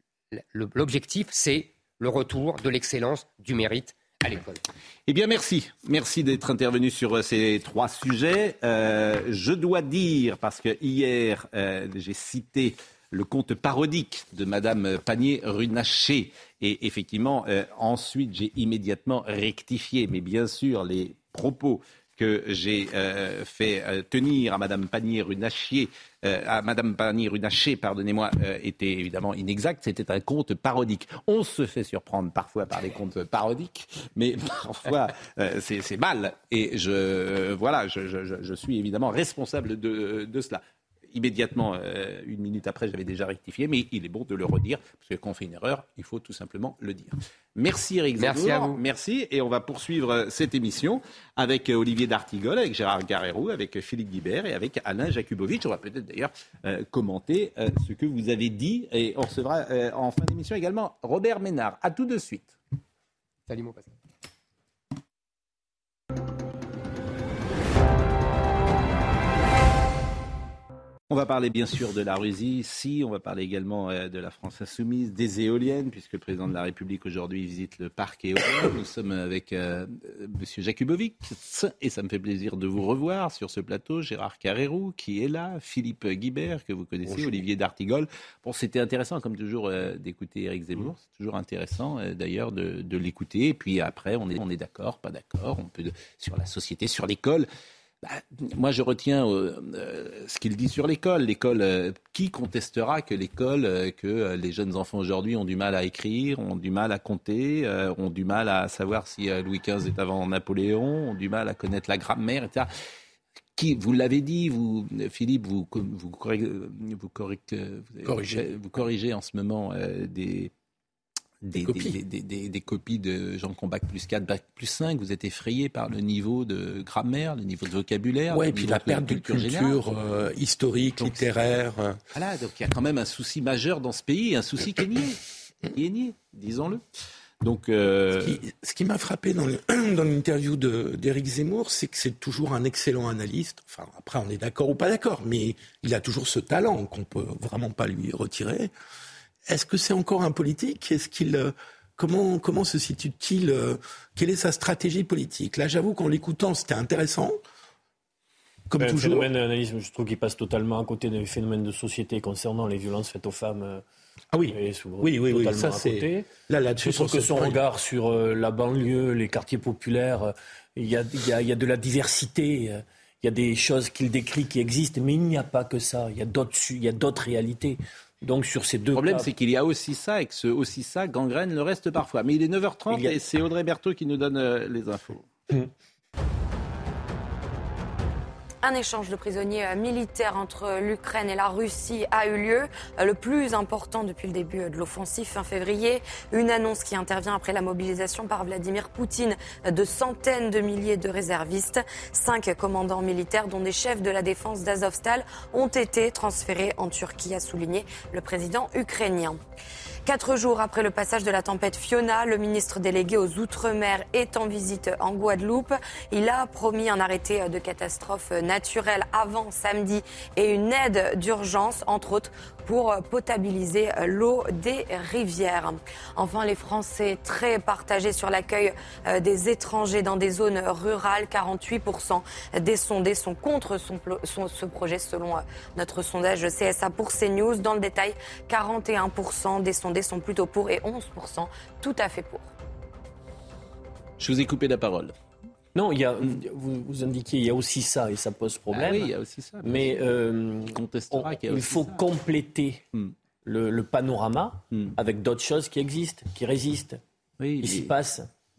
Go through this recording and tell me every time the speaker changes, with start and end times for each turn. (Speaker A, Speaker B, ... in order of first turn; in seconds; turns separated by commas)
Speaker A: 0.3-4.6, Speaker B: 5.1-62.6, Speaker A: 48.2-48.8, Speaker A: 63.5-63.9, Speaker B: 71.1-97.5, Speaker B: 98.0-112.7, Speaker B: 113.6-120.5, Speaker C: 118.0-118.5, Speaker B: 121.4-129.8, Speaker C: 121.6-122.0, Speaker C: 128.3-132.0, Speaker B: 132.1-135.2, Speaker B: 135.7-136.8, Speaker B: 137.4-138.4, Speaker C: 138.2-148.7, Speaker C: 149.5-157.4, Speaker C: 158.7-159.3, Speaker D: 158.8-163.8, Speaker C: 164.3-167.6, Speaker D: 164.5-179.3, Speaker B: 178.9-185.3, Speaker D: 182.9-183.2, Speaker E: 188.6-209.4, Speaker E: 210.1-242.5, Speaker B: 244.2-245.1, Speaker D: 245.8-249.1, Speaker B: 248.7-250.1, Speaker D: 249.6-252.8, Speaker B: 250.7-252.0, Speaker D: 253.4-257.0, Speaker B: 257.4-257.9, Speaker D: 257.6-258.3